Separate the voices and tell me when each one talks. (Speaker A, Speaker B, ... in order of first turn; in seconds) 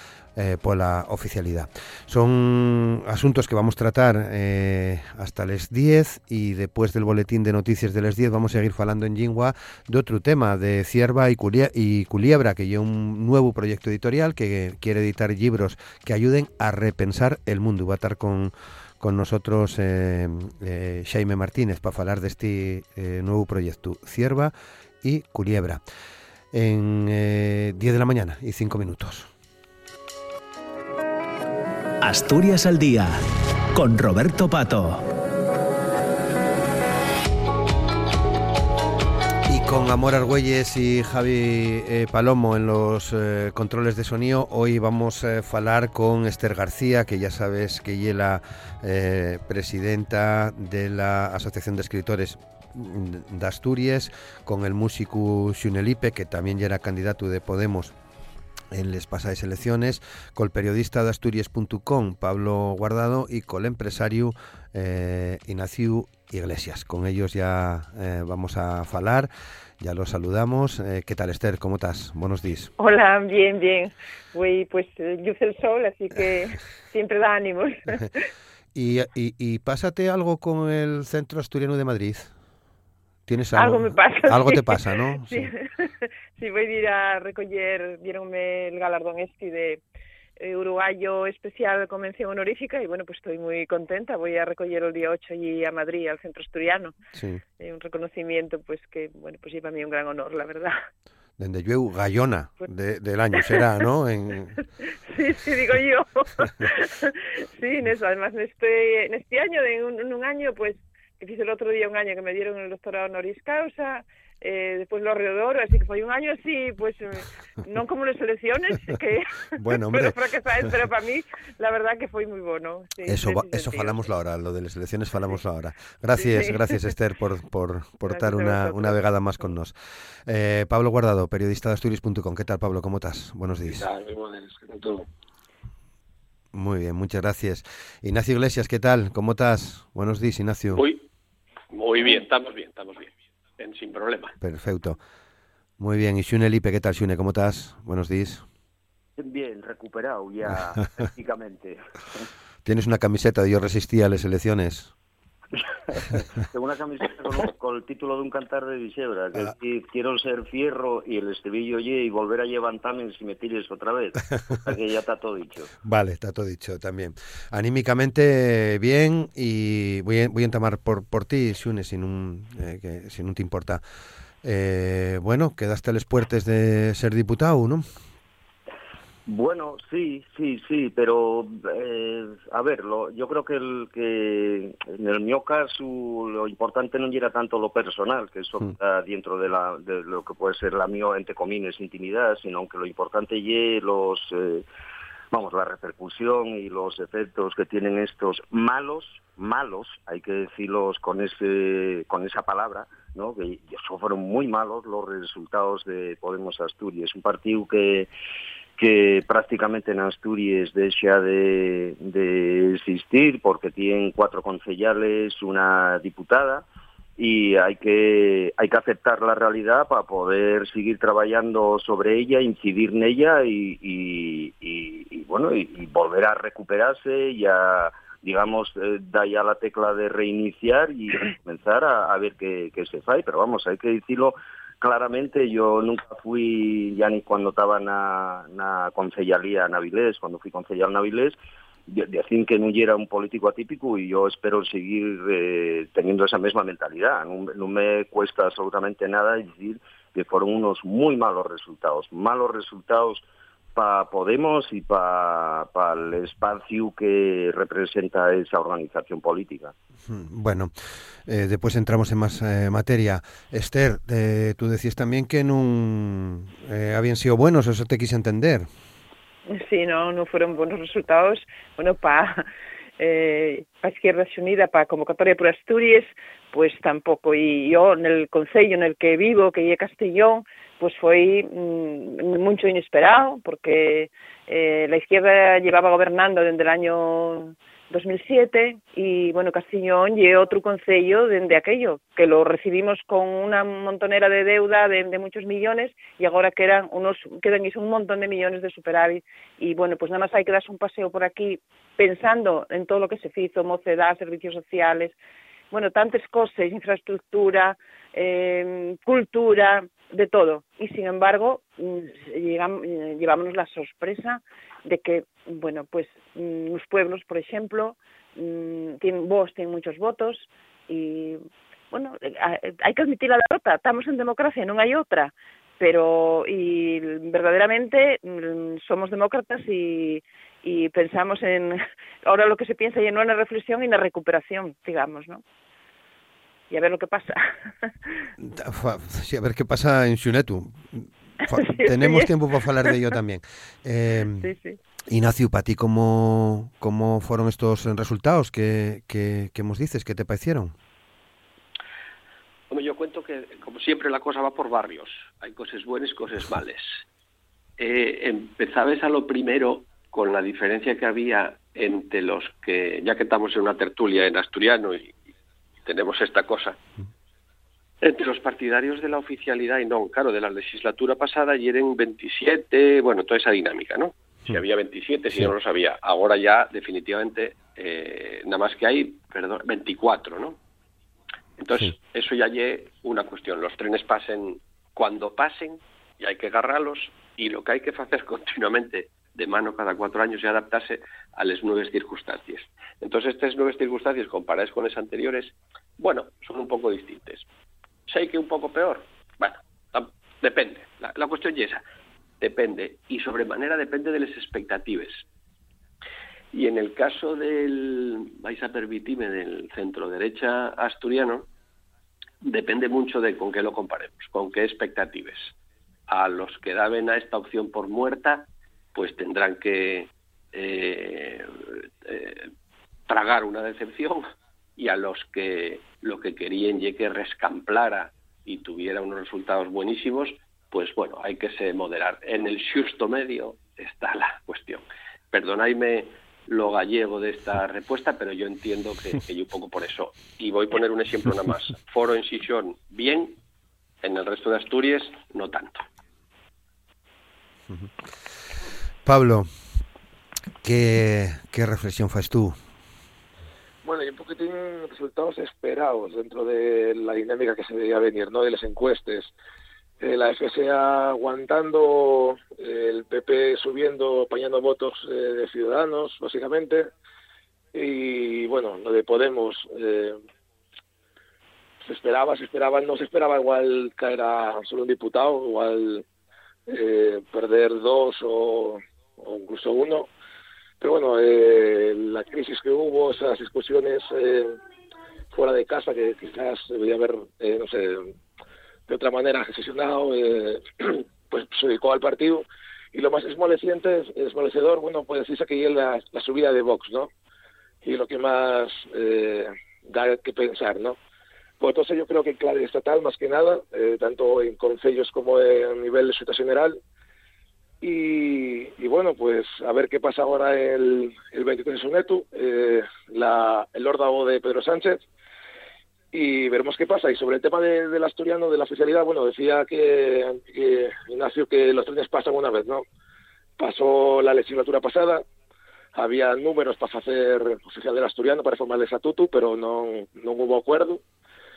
Speaker A: 0.3-25.8, 26.5-29.3, 39.5-57.9, 58.7-72.7, 78.7-82.3, 83.2-85.5, 97.2-97.4, 101.4-104.6, 119.6-120.2, 123.1-129.7, 130.2-133.9, 136.5-140.8, 144.4-145.0, 145.8-148.4, 152.7-154.9, 165.8-173.8, 174.4-177.8, 260.1-260.7, 261.2-268.7, 338.4-344.5, 345.1-350.7, 449.1-449.5, 450.6-452.6
Speaker B: 32.0-33.2, 33.7-35.0
Speaker C: 72.8-78.2, 83.5-89.8, 90.4-96.9, 97.6-100.8, 103.4-103.6, 104.8-124.1, 126.2-126.8, 128.1-129.0, 269.5-272.4, 273.0-305.2, 305.7-335.4, 336.7-337.5, 341.5-342.3, 344.3-344.8
Speaker D: 133.7-135.1, 453.8-459.3, 460.0-466.9, 467.7-470.2, 471.8-476.1, 476.7-480.1, 480.8-484.6, 485.3-488.1, 488.9-497.1, 497.8-501.0, 501.6-506.8, 507.8-515.0, 516.1-522.8, 523.6-525.2, 525.9-531.0
Speaker E: 140.7-141.1, 141.7-144.3, 352.7-357.0, 357.8-365.1, 365.8-366.8, 368.0-380.6, 381.6-397.5, 398.1-401.8, 402.4-405.2, 406.5-411.5, 412.4-415.6, 416.1-422.5, 423.1-424.3, 424.8-443.4, 444.0-445.8
Speaker F: 149.2-151.8, 155.9-165.7, 179.3-194.7, 195.3-208.1, 208.8-216.7, 217.2-241.4, 241.9-253.2, 253.8-259.7